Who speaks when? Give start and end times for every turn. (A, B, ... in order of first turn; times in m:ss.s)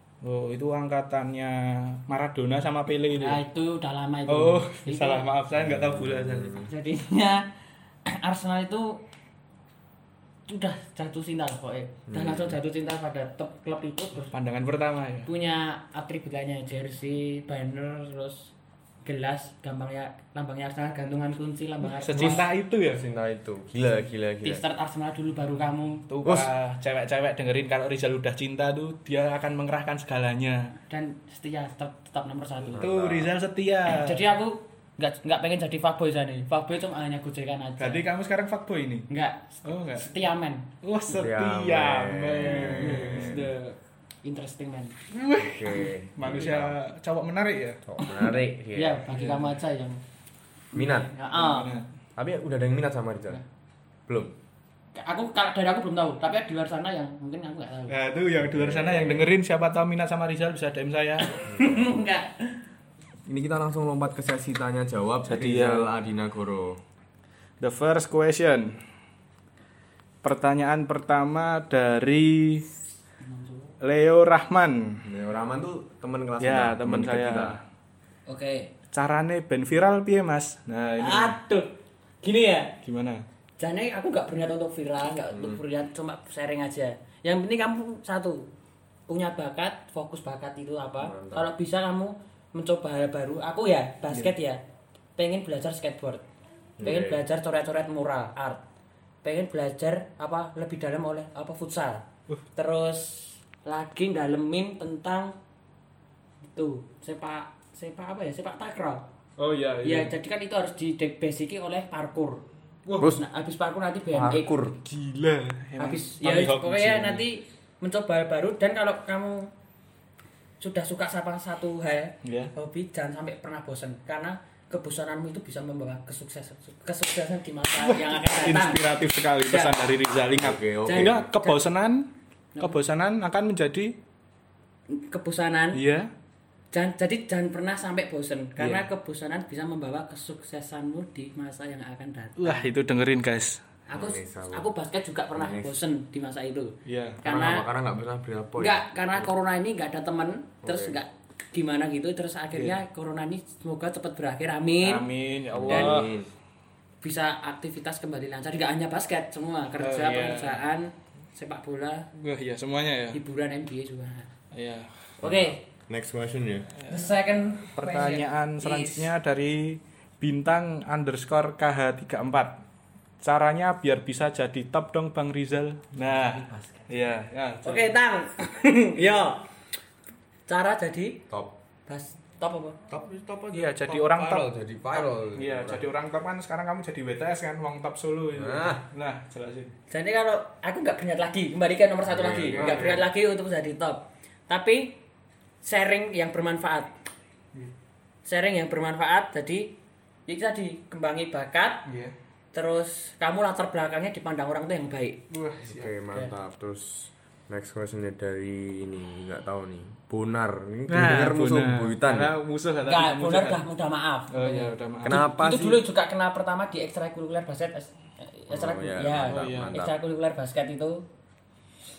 0:00.2-0:03.4 A
0:03.2-0:05.3 B
0:04.3-0:06.6 A
0:05.6-0:06.7 C
0:06.6-0:07.5 B
0:08.1-0:09.0 B
0:10.5-0:14.3 B
0:12.1-0:12.6 C
0:14.3-0:15.3 A
0:15.3-0:18.5 B
0:19.0-0:22.5 B
0:21.8-0:23.0 A
0:22.2-0:24.6 C
0:24.4-0:26.1 B
0:26.1-0:30.7 A
0:26.2-0:26.5 C
0:30.9-0:32.9 B
0:32.7-0:33.3 C
0:32.7-0:34.2 A
0:33.9-0:38.0 B
0:37.8-0:39.1 A
0:39.1-0:40.7 B
0:39.6-0:40.1 A
0:40.8-0:43.8 A
0:41.1-0:43.5 C
0:42.7-0:43.5 B
0:44.2-0:45.0 B
0:45.1-0:47.8 A
0:45.4-0:46.8 C
0:47.8-0:49.1 C
0:48.0-0:50.0 B
0:49.1-0:49.6 A
0:50.7-0:51.1 C
0:50.8-0:51.7 B
0:51.3-0:51.9 A
0:52.2-0:53.4 C
0:54.1-0:54.4 C
0:55.0-0:58.0 B
0:57.9-1:01.3 A
0:58.4-0:59.3 C
1:01.2-1:02.6 B
1:01.4-1:02.0 C
1:03.3-1:06.8 C
1:05.3-1:05.9 A
1:07.6-1:08.8 A
1:10.2-1:12.7 A
1:13.2-1:13.7 B
1:13.8-1:15.0 A
1:15.0-1:17.6 C
1:16.4-1:17.6 A
1:18.3-1:18.7 B
1:18.9-1:21.4 A
1:21.0-1:22.8 B
1:22.8-1:23.2 A
1:23.6-1:28.5 B
1:25.3-1:25.6 C
1:29.1-1:34.6 B
1:31.0-1:31.5 C
1:35.2-1:36.2 B
1:36.8-1:37.2 C
1:36.8-1:38.6 B
1:39.2-1:45.4 B
1:46.5-1:49.0 B
1:49.4-1:50.1 A
1:49.8-1:52.4 B
1:52.9-1:53.1 A
1:53.0-1:54.6 B
1:54.1-1:54.8 C
1:54.8-1:57.2 A
1:55.8-1:59.5 B
2:00.6-2:08.8 B
2:02.2-2:02.5 A
2:07.8-2:14.0 A
2:09.5-2:09.8 B
2:10.4-2:11.3 C
2:10.8-2:11.6 B
2:14.9-2:15.8 B
2:15.7-2:16.1 A
2:16.7-2:22.7 B
2:22.4-2:23.6 A
2:23.9-2:27.6 B
2:23.9-2:24.7 C
2:25.4-2:25.8 C
2:26.9-2:27.2 A
2:27.2-2:29.3 C
2:28.6-2:35.1 B
2:30.6-2:31.0 C
2:34.8-2:36.1 A
2:35.5-2:36.3 C
2:35.6-2:36.0 B
2:37.0-2:42.1 B
2:39.8-2:40.6 A
2:42.1-2:43.2 A
2:43.1-2:44.3 B
2:44.5-2:44.9 A
2:45.2-2:45.6 B
2:45.2-2:46.7 C
2:46.8-2:47.1 A
2:46.9-2:49.1 B
2:47.8-2:52.6 A
2:53.2-2:57.9 A
2:56.0-2:57.0 B
2:57.6-2:59.5 B
2:59.0-2:59.3 A
3:00.5-3:01.2 B
3:01.3-3:01.6 C
3:01.9-3:02.8 B
3:02.9-3:05.8 C
3:03.5-3:04.5 A
3:05.4-3:09.7 A
3:08.3-3:08.8 C
3:09.9-3:15.0 B
3:12.0-3:13.0 C
3:12.5-3:13.1 A
3:15.6-3:16.9 B
3:18.2-3:21.8 B
3:21.9-3:22.1 A
3:22.5-3:25.2 B
3:25.3-3:26.0 A
3:25.6-3:32.4 C
3:30.9-3:33.6 A
3:32.8-3:41.1 B
3:34.3-3:35.2 A
3:35.0-3:35.8 C
3:38.5-3:40.0 C
3:39.3-3:39.8 A